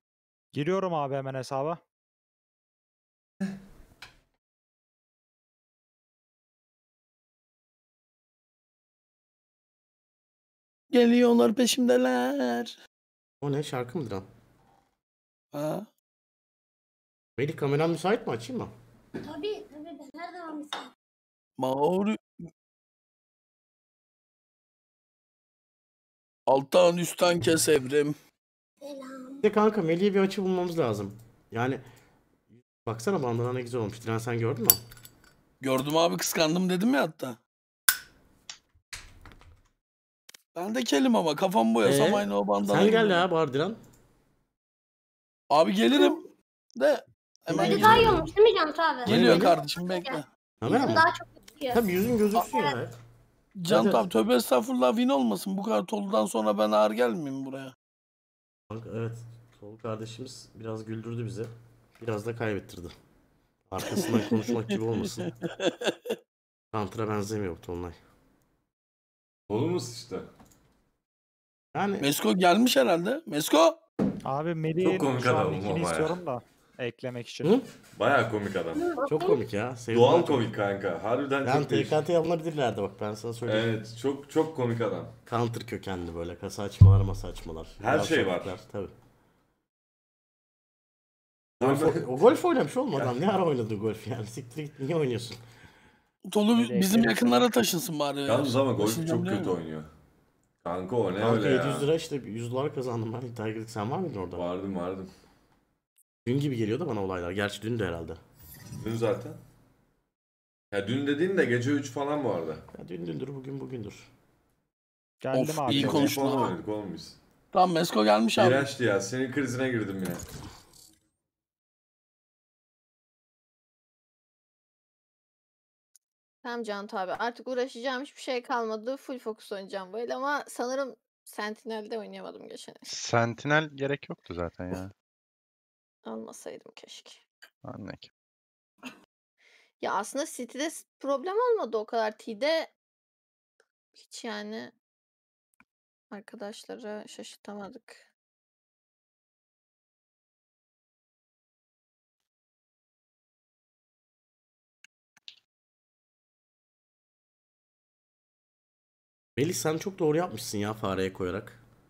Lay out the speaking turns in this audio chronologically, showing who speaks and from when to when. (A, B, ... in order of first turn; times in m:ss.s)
0:00.5-0:01.8 A
0:10.9-0:12.8 B
0:13.4-0:14.3 C
0:15.5-0:15.9 B
0:17.4-0:18.7 C
0:19.2-0:20.9 D
0:21.6-0:22.2 B
0:26.5-0:28.2 B
0:28.8-0:29.5 D
0:29.4-0:31.8 C
0:32.8-0:34.8 C
0:35.6-0:37.4 B
0:40.6-0:43.2 B
0:41.8-0:43.8 C
0:45.5-0:46.2 B
0:45.9-0:46.2 D
0:46.8-0:48.3 B
0:47.5-0:52.8 D
0:47.5-0:48.2 C
0:49.0-0:50.3 B
0:49.1-0:49.5 C
0:50.6-0:51.1 C
0:51.7-0:53.0 C
0:53.6-0:57.7 B
0:53.7-0:54.1 C
0:58.7-1:02.9 C
1:03.7-1:05.3 C
1:03.9-1:06.2 B
1:06.7-1:08.0 C
1:09.5-1:10.3 E
1:11.7-1:12.1 C
1:12.0-1:13.8 B
1:14.2-1:17.6 A
1:14.8-1:16.2 E
1:18.0-1:18.9 E
1:18.7-1:19.4 D
1:19.1-1:20.5 C
1:19.9-1:22.0 E
1:21.4-1:23.7 C
1:23.5-1:25.1 E
1:25.3-1:28.9 C
1:27.8-1:28.6 E
1:31.6-1:32.3 E
1:31.6-1:35.4 C
1:36.3-1:39.6 B
1:38.3-1:39.9 E
1:40.6-1:41.9 E
1:41.2-1:44.4 C
1:44.3-1:45.1 E
1:46.2-1:48.2 C
1:48.8-1:49.4 E
1:50.7-1:52.6 E
1:52.7-1:54.1 C
1:55.2-1:56.1 A
1:55.3-1:56.6 B
1:55.7-1:57.2 E
1:57.5-1:58.7 B
1:58.4-2:00.2 E
2:06.4-2:12.9 F
2:12.9-2:14.9 G
2:16.0-2:17.2 F
2:17.6-2:18.1 G
2:19.8-2:22.7 F
2:24.0-2:24.7 F
2:26.1-2:28.0 F
2:39.4-2:41.6 C